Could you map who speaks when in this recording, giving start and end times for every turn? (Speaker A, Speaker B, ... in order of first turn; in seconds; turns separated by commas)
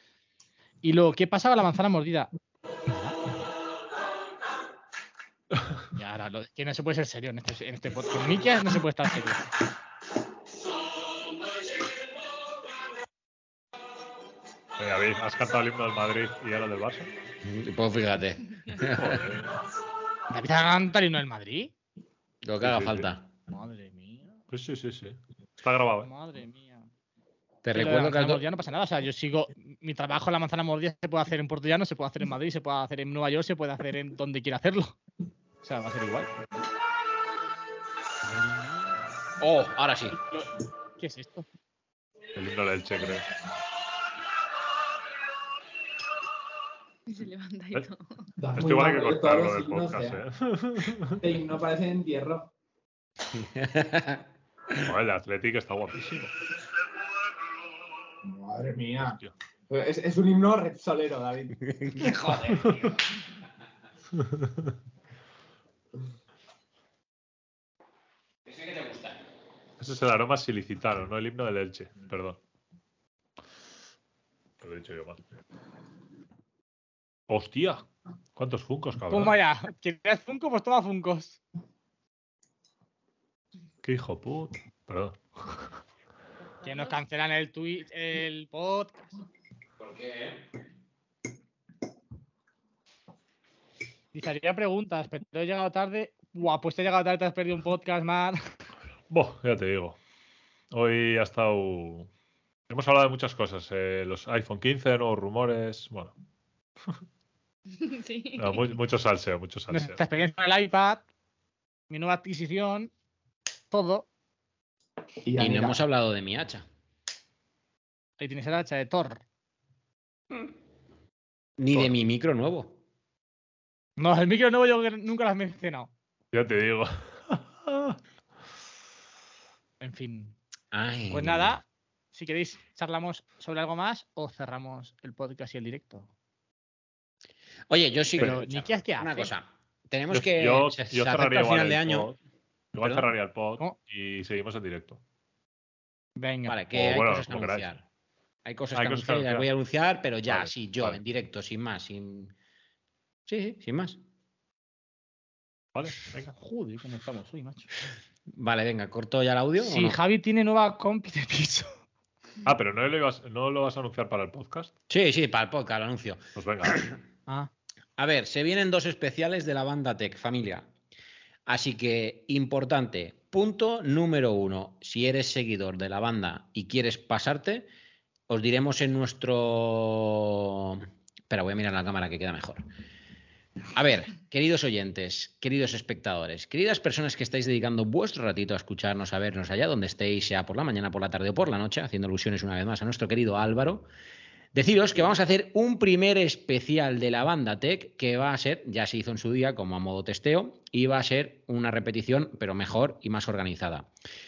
Speaker A: 0.8-2.3, Speaker A: 2.9-3.2, Speaker A: 5.9-9.5, Speaker B: 14.8-17.1, Speaker C: 17.4-19.3, Speaker B: 18.9-19.5, Speaker A: 20.3-21.7, Speaker C: 22.4-23.3, Speaker B: 22.6-23.1, Speaker A: 23.5-24.4, Speaker B: 24.5-26.1, Speaker A: 26.0-26.9, Speaker C: 27.6-28.4, Speaker A: 27.7-35.0, Speaker A: 35.6-36.3, Speaker A: 38.2-39.0, Speaker C: 39.4-40.2, Speaker A: 40.3-41.5, Speaker B: 42.3-43.3, Speaker D: 47.1-48.3, Speaker E: 48.4-50.2, Speaker B: 48.6-51.2, Speaker E: 51.2-52.5, Speaker C: 53.3-54.9, Speaker B: 54.8-56.3, Speaker E: 58.2-62.1, Speaker C: 61.6-63.0, Speaker B: 62.5-62.9, Speaker C: 68.5-69.2, Speaker B: 69.8-72.4, Speaker B: 74.6-75.2, Speaker B: 77.3-79.3, Speaker A: 79.1-81.4, Speaker B: 83.8-85.7, Speaker D: 86.4-87.0, Speaker A: 86.6-89.1, Speaker C: 89.8-90.4, Speaker A: 94.1-98.4, Speaker B: 99.1-100.0, Speaker B: 100.7-102.1, Speaker B: 102.7-106.1, Speaker D: 107.7-108.7, Speaker B: 108.4-110.0, Speaker A: 109.7-111.0, Speaker A: 111.9-112.9, Speaker A: 113.7-114.1, Speaker E: 115.2-115.8, Speaker C: 115.4-116.6, Speaker A: 118.2-119.2, Speaker C: 121.6-122.8, Speaker A: 124.0-125.9, Speaker B: 126.3-128.0, Speaker A: 129.8-130.3, Speaker C: 130.7-131.6, Speaker A: 131.1-136.1, Speaker C: 137.7-142.1, Speaker A: 138.2-139.3, Speaker B: 140.1-142.2, Speaker B: 142.7-145.0, Speaker C: 142.8-143.1, Speaker A: 146.2-146.6, Speaker C: 146.4-147.8, Speaker B: 146.7-147.7, Speaker C: 148.4-152.3, Speaker B: 148.7-149.5, Speaker B: 150.3-151.0, Speaker C: 153.3-154.0, Speaker B: 155.7-156.3, Speaker A: 156.2-157.7, Speaker C: 158.3-160.0, Speaker A: 159.6-161.7, Speaker B: 162.4-164.7, Speaker C: 164.9-166.9, Speaker B: 166.3-166.8, Speaker C: 168.0-170.7, Speaker C: 171.5-177.7, Speaker C: 178.3-182.6, Speaker C: 183.7-193.9, Speaker C: 194.5-203.9